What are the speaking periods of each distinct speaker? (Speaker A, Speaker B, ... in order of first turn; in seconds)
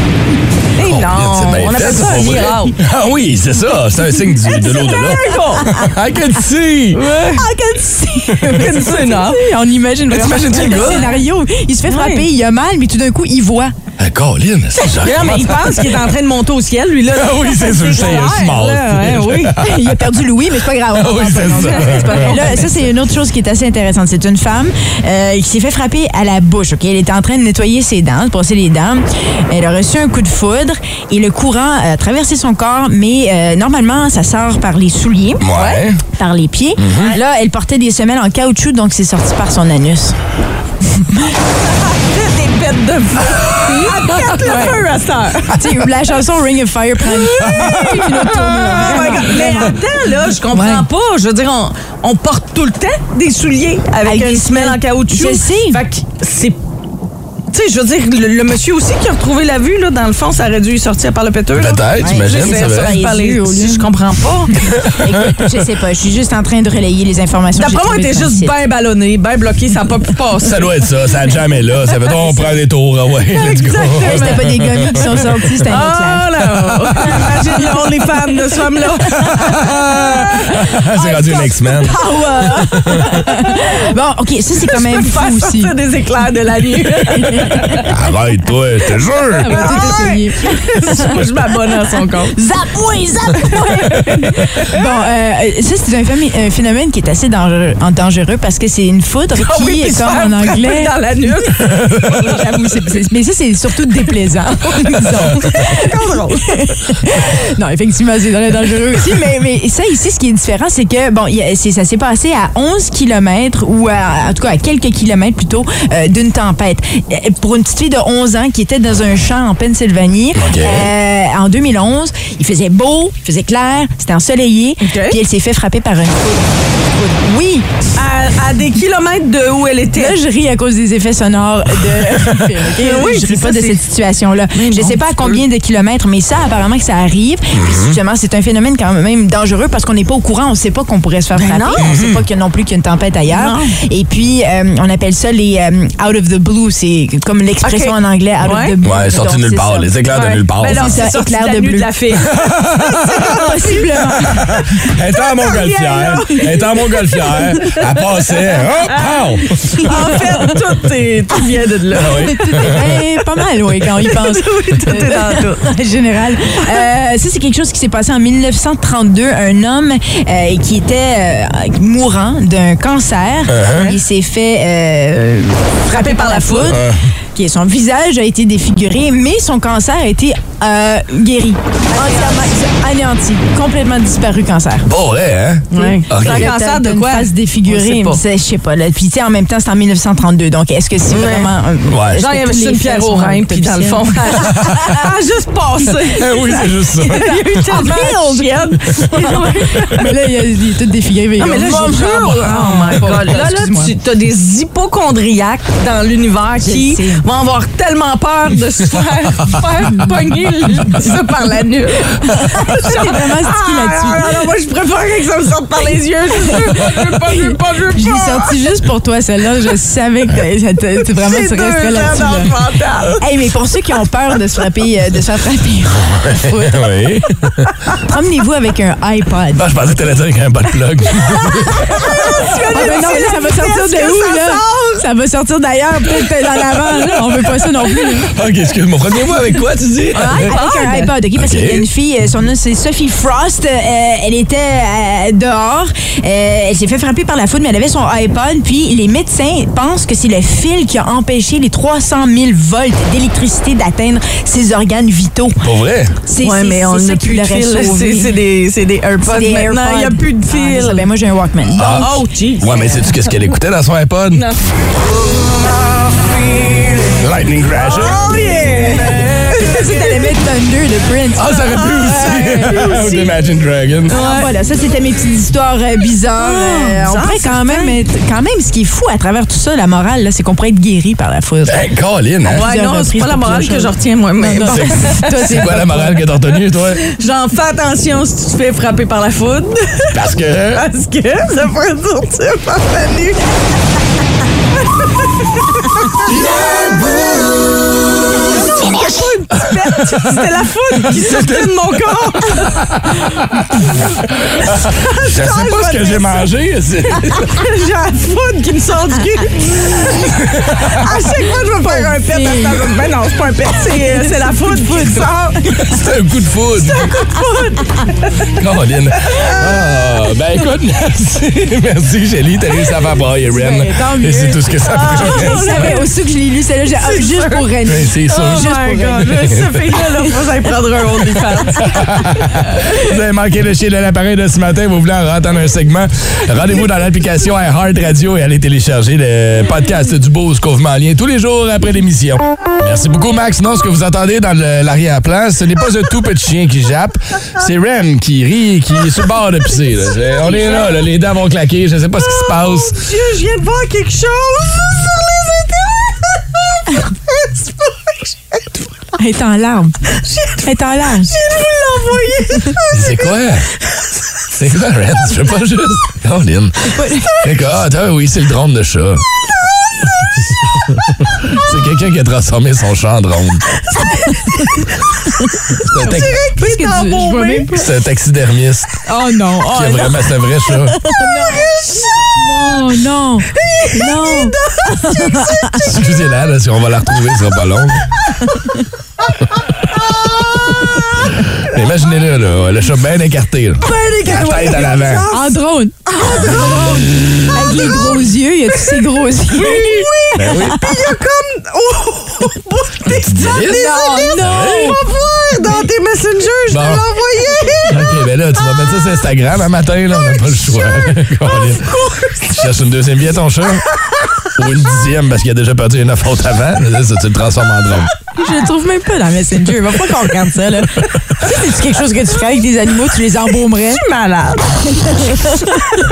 Speaker A: 0.8-2.8, 4.5-5.7, 6.9-7.5, 8.4-9.4, 10.2-11.2, 11.9-12.3, 14.8-19.6, 21.6-22.7, 35.5-35.9, 41.6-45.6, 47.1-56.6, 57.5-64.7, 67.6-70.7, 73.3-74.5, 75.7-83.7, 84.6-87.9, 89.4-92.4, 93.4-94.8, 99.4-102.5, 105.2-106.6, 124.8-125.2, 128.0-130.2, 132.7-133.9, 134.5-135.4, 141.3-141.9, 143.3-143.7, 147.6-148.8, 150.1-152.3, 153.0-154.2, 155.2-158.0, 158.9-159.2, 159.7-162.7, 164.0-165.6, 175.9-176.7, 181.9-182.5, 185.7-188.2, 191.1-191.5, 192.2-200.0, 201.4-218.5, 221.1-223.2, 231.9-235.0, 240.1-241.1, 256.4-261.1, 261.8-263.3, 267.8-270.3, 271.8-273.3, 274.1-274.5, 276.4-278.0, 282.5-285.7, 287.1-290.1, 290.7-293.4, 294.9-296.6, 298.4-302.8, 304.9-306.5, 307.4-315.6, 316.8-318.5, 319.3-319.6, 324.8-326.1, 327.0-327.6, 328.3-332.9, 350.4-351.0, 352.2-358.6, 360.1-360.7, 361.2-363.3, 373.9-374.6, 376.0-377.8, 379.6-380.1, 381.1-382.0, 383.5-385.7, 390.6-391.2, 393.8-397.3, 399.5-408.1, 410.3-412.5, 423.9-425.2
Speaker B: 0.8-7.0, 10.2-11.0, 14.0-16.0, 17.1-20.2, 20.9-22.6, 35.4-36.0, 36.8-37.1, 47.5-48.0, 61.5-62.9, 64.8-65.3, 70.4-75.0, 79.1-81.9, 82.5-83.0, 87.9-89.9, 120.4-120.9, 137.5-138.0, 141.8-142.2, 148.8-151.0, 152.2-153.3, 154.3-159.9, 161.9-162.9, 173.5-173.9, 176.7-177.0, 184.9-186.5, 191.9-192.2, 194.4-194.8, 196.1-197.3, 226.1-227.7, 229.5-232.0, 238.3-240.5, 241.4-241.8, 255.6-256.1, 261.7-262.1, 262.6-264.4, 267.2-268.2, 271.4-274.1, 281.6-282.6, 284.6-287.1, 290.1-290.8, 296.2-297.3, 301.1-303.8, 304.4-307.6, 310.4-310.9, 315.8-317.2, 318.6-325.9, 327.9-329.6, 331.9-353.0, 362.9-363.7, 364.5-369.2, 371.4-373.6, 375.8-376.4, 377.7-379.0, 379.7-381.0, 385.8-388.1, 391.6-395.3, 400.4-400.8, 403.1-405.0, 406.7-407.1, 407.9-411.9, 412.5-413.9, 414.6-418.1
Speaker C: 5.6-5.8, 7.3-13.7, 19.6-35.4, 36.1-40.1, 40.9-41.4, 43.9-44.8, 45.5-49.8, 50.5-50.9, 54.0-55.8, 62.0-63.9, 64.8-68.5, 72.2-72.5, 73.9-76.3, 77.0-77.7, 81.8-85.7, 87.1-87.8, 89.4-91.2, 91.8-101.0, 102.1-127.7, 129.9-149.9, 150.6-152.0, 153.2-154.7, 159.7-160.5, 162.0-184.9, 185.8-194.9, 197.2-203.9, 206.6-207.2, 209.7-210.2, 212.3-214.5, 216.4-222.6, 223.2-226.9, 228.0-229.7, 231.4-238.3, 240.2-255.6, 256.2-258.4, 259.2-262.2, 268.4-273.2, 274.1-281.8, 282.4-286.3, 311.8-312.9, 313.8-315.9, 323.5-329.6, 359.1-360.0, 360.6-361.3, 366.9-367.4, 376.6-377.9, 379.1-380.0, 380.9-381.7, 382.4-386.0, 395.3-401.1, 403.7-405.0, 418.4-424.0, 425.0-425.9